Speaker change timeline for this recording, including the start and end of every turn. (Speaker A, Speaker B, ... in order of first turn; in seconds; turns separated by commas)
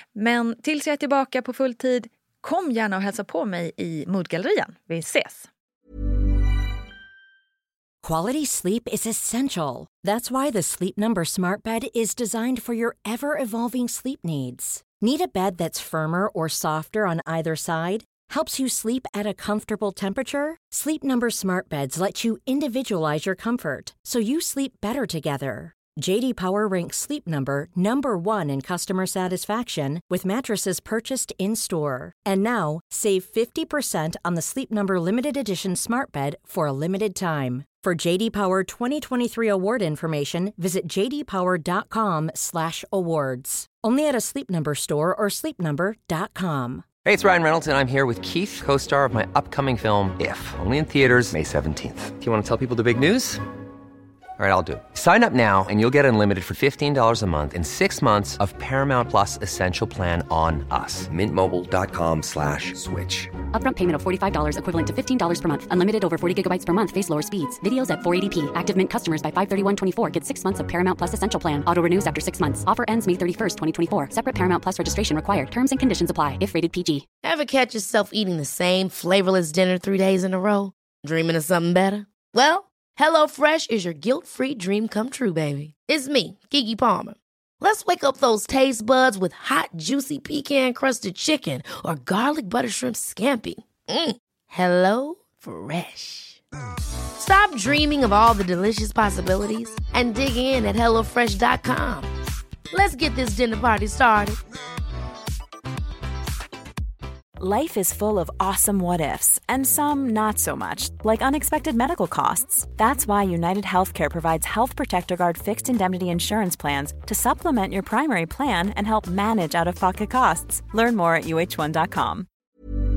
Speaker A: 0.1-5.5, Speaker B: 8.0-46.9, Speaker C: 47.0-53.4, Speaker C: 54.4-63.4, Speaker D: 63.5-77.0, Speaker E: 77.2-96.4, Speaker E: 97.2-102.1, Speaker E: 102.7-104.4, Speaker F: 107.4-122.3